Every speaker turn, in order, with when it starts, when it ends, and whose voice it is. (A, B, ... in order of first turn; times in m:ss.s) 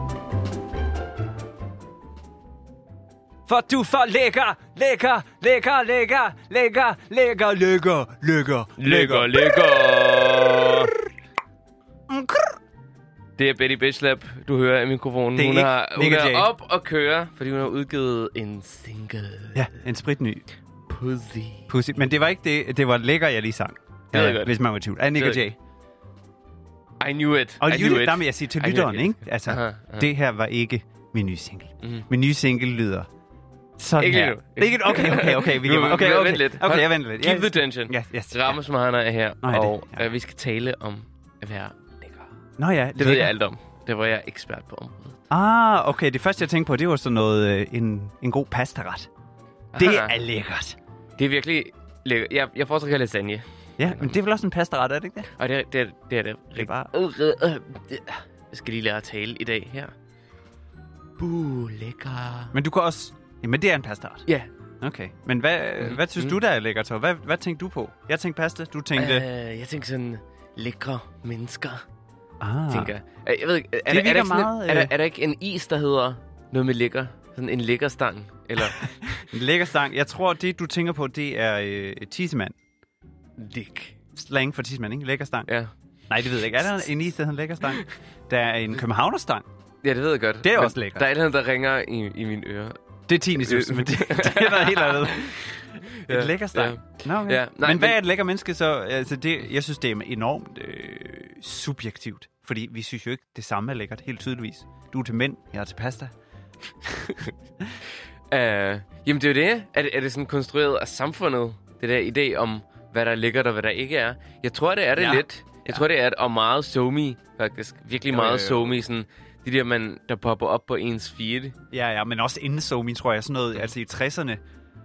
0:03.5-0:09.8 A
0:08.8-0:10.9 B
0:12.1-0:12.6 A
0:13.4-0:19.8 B
0:15.3-0:16.5 A
0:19.5-0:20.4 A
0:20.9-0:21.7 B
0:21.7-0:25.6 A
0:24.1-0:24.6 B
0:25.1-0:25.5 B
0:27.0-0:30.1 B
0:27.6-0:33.1 A
0:33.8-0:38.6 A
0:34.0-0:42.3 B
0:39.4-0:40.1 A
0:42.6-0:43.3 A
0:43.0-0:45.2 B
0:45.3-0:49.1 A
0:49.7-0:50.2 B
0:49.8-0:50.8 A
0:51.2-0:54.2 B
0:53.8-0:55.3 A
0:55.4-0:59.9 B
0:56.6-0:56.9 A
1:01.2-1:02.6 B
1:02.5-1:04.2 A
1:04.8-1:09.2 A
1:05.8-1:06.4 B
1:09.0-1:11.8 B
1:12.4-1:12.9 A
1:12.7-1:19.2 B
1:13.9-1:14.9 A
1:18.6-1:22.6 A
1:23.4-1:24.0 B
1:24.1-1:25.5 A
1:25.5-1:25.7 B
1:26.1-1:29.4 A
1:27.6-1:27.9 B
1:29.8-1:32.8 B
1:30.4-1:31.0 A
1:33.1-1:46.1 A
1:33.3-1:38.0 B
1:46.9-1:47.3 B
1:48.3-2:01.6 B
1:55.0-1:55.8 A
1:58.1-1:58.8 A
2:01.7-2:04.4 A